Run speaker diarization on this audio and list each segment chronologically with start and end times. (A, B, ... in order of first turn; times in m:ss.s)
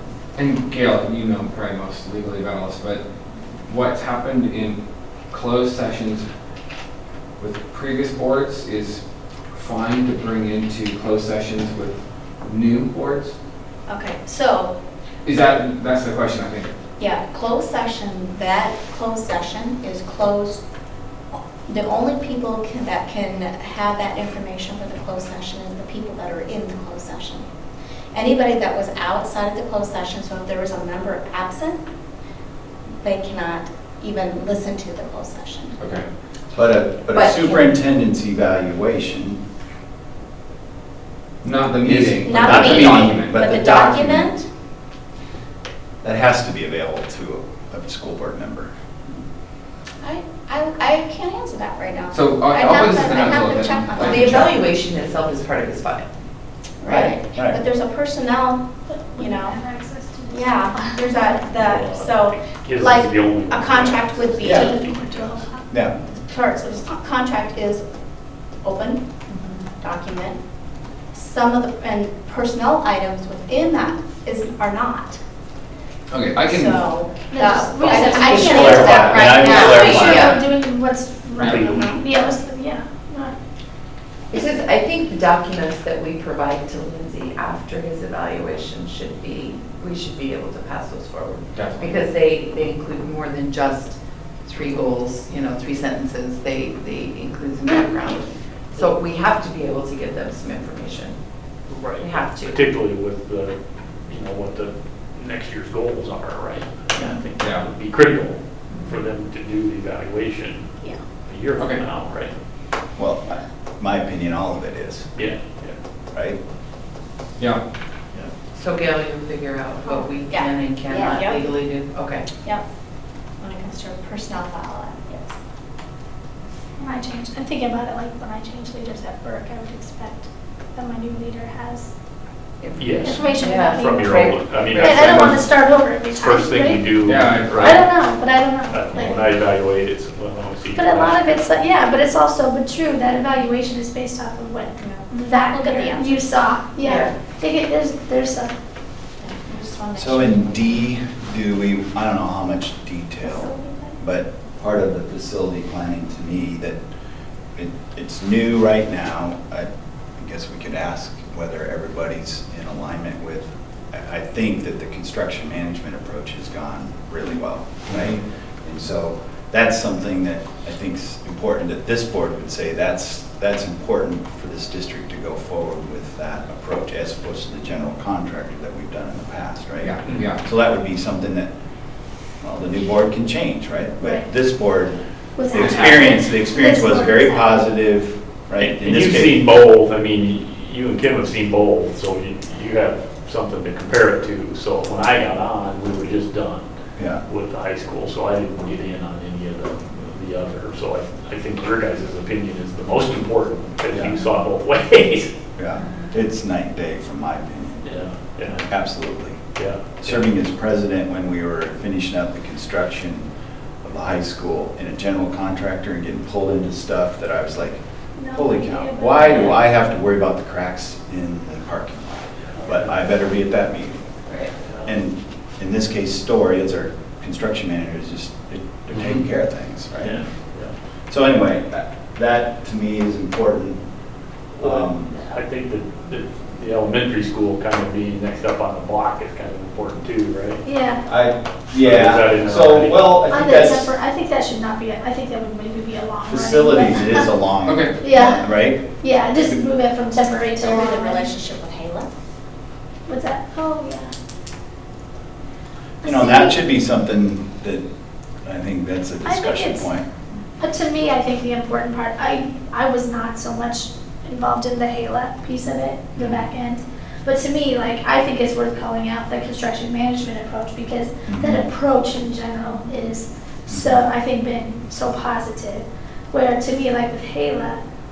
0:00.4-0:03.1 A
0:03.7-0:06.3 A
0:07.4-0:13.3 A
0:13.9-0:14.8 B
0:15.2-0:16.7 A
0:17.0-0:20.6 B
0:21.6-0:27.5 B
0:28.1-0:31.8 B
0:33.0-0:35.8 B
0:35.8-0:36.0 A
0:36.5-0:39.4 C
0:37.1-0:37.7 D
0:41.4-0:43.4 A
0:41.8-0:44.3 C
0:42.2-0:44.5 B
0:46.0-0:48.7 C
0:50.0-0:54.6 B
0:52.1-0:54.5 A
0:54.0-0:56.1 D
0:56.8-0:59.6 B
0:56.8-0:57.2 D
0:57.3-0:57.6 C
0:58.9-1:01.7 E
1:00.3-1:05.3 B
1:01.6-1:05.2 F
1:04.4-1:04.7 C
1:04.4-1:05.7 E
1:05.7-1:06.0 C
1:06.3-1:07.8 B
1:08.6-1:10.4 B
1:11.1-1:15.2 B
1:16.1-1:17.0 A
1:16.4-1:20.3 B
1:17.3-1:23.4 E
1:17.9-1:20.4 C
1:19.5-1:20.4 D
1:21.4-1:21.8 F
1:21.6-1:22.0 B
1:24.3-1:41.2 D
1:31.5-1:32.0 A
1:41.7-1:50.7 F
1:42.0-1:42.6 D
1:47.4-1:47.7 A
1:51.3-1:52.3 F
1:51.6-1:51.8 A
1:53.0-1:55.1 C
1:55.2-1:55.8 F
1:56.1-1:56.4 C
1:58.5-2:02.3 D
1:59.9-2:01.5 B
2:03.4-2:05.4 B
2:06.8-2:11.9 E
2:12.6-2:15.4 D
2:12.8-2:17.9 F
2:13.0-2:17.1 E
2:17.0-2:17.8 A
2:17.6-2:19.3 E
2:18.7-2:21.4 F
2:20.7-2:28.5 E
2:25.4-2:26.3 B
2:26.8-2:27.1 D
2:29.2-2:30.8 D
2:30.0-2:36.8 C
2:33.2-2:33.9 E
2:37.6-3:01.5 C
2:59.8-3:00.4 A
3:02.4-3:05.0 C
3:04.0-3:04.3 E
3:05.4-3:07.7 E
3:05.5-3:09.4 C
3:05.5-3:06.0 A
3:08.6-3:16.7 F
3:17.0-3:17.2 C
3:17.3-3:25.3 F
3:23.9-3:24.2 C
3:25.6-3:27.9 C
3:27.8-3:28.7 F
3:28.5-3:29.4 C
3:29.6-3:30.2 F
3:30.0-3:33.3 C
3:33.8-3:44.1 C
3:38.2-3:39.7 E
3:44.6-3:44.9 F
3:44.8-3:50.2 C
3:50.0-3:50.7 F
3:51.1-3:53.8 C
3:54.6-4:00.6 F
3:54.6-3:55.1 C
4:00.6-4:01.0 E
4:01.1-4:03.9 C
4:01.8-4:03.1 F
4:03.2-4:07.3 E
4:06.2-4:09.6 C
4:07.6-4:08.0 A
4:08.0-4:11.3 E
4:10.6-4:12.1 B
4:13.1-4:14.1 E
4:16.0-4:16.6 E
4:16.0-4:17.8 C
4:18.4-4:20.1 C
4:19.2-4:19.9 E
4:20.6-4:37.8 E
4:26.2-4:26.4 C
4:31.3-4:31.6 C
4:33.7-4:34.0 C